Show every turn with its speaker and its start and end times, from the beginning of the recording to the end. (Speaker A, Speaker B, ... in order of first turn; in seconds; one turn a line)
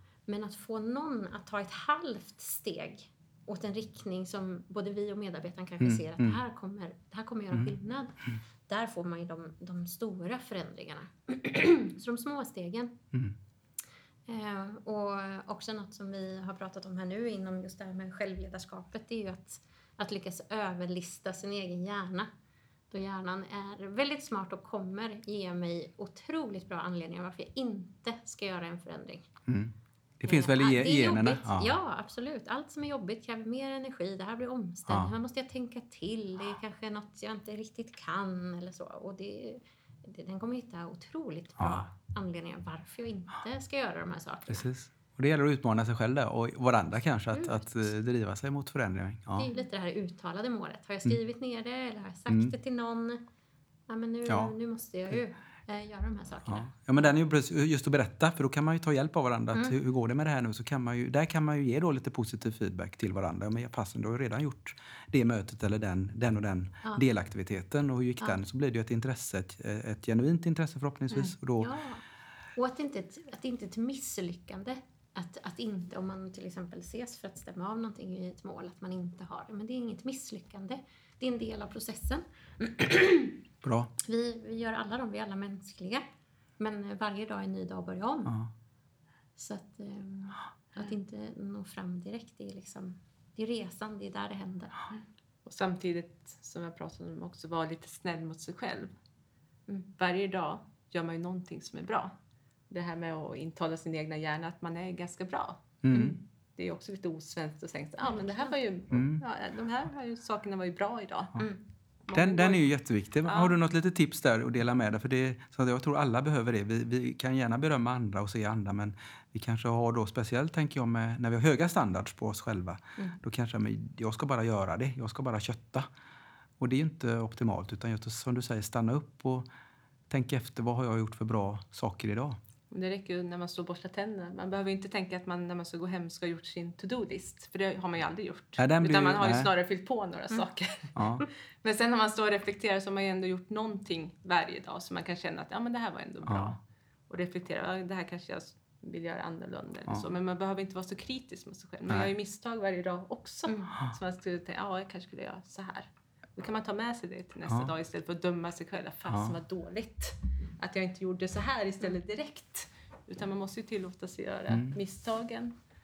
Speaker A: 0.3-13.0
Speaker B: 5.8-6.4
Speaker A: 14.3-22.3
Speaker A: 22.9-29.3
Speaker B: 29.5-31.7
Speaker A: 30.2-44.7
Speaker B: 41.6-41.8
Speaker B: 44.5-49.5
Speaker A: 47.3-47.9
Speaker A: 49.4-53.2
Speaker B: 52.3-52.5
Speaker A: 53.9-57.1
Speaker B: 54.3-54.5
Speaker B: 56.5-71.7
Speaker A: 71.6-72.0
Speaker A: 72.6-83.4
Speaker B: 83.6-83.9
Speaker A: 84.0-86.0
Speaker A: 86.6-88.4
Speaker B: 88.3-88.5
Speaker A: 89.4-94.8
Speaker C: 95.5-98.9
Speaker C: 99.9-102.1
Speaker C: 102.7-105.6
Speaker B: 105.8-106.2
Speaker A: 105.9-106.2
Speaker C: 106.6-111.4
Speaker A: 108.0-108.6
Speaker B: 108.9-109.2
Speaker C: 112.1-112.7
Speaker B: 112.1-125.9
Speaker C: 113.3-113.5
Speaker B: 126.6-129.5
Speaker B: 130.1-132.4
Speaker C: 132.7-165.6
Speaker B: 138.6-139.5
Speaker B: 141.0-141.3
Speaker B: 146.2-146.6
Speaker A: 153.5-153.8
Speaker B: 157.5-157.7
Speaker B: 159.1-159.4
Speaker B: 164.5-164.8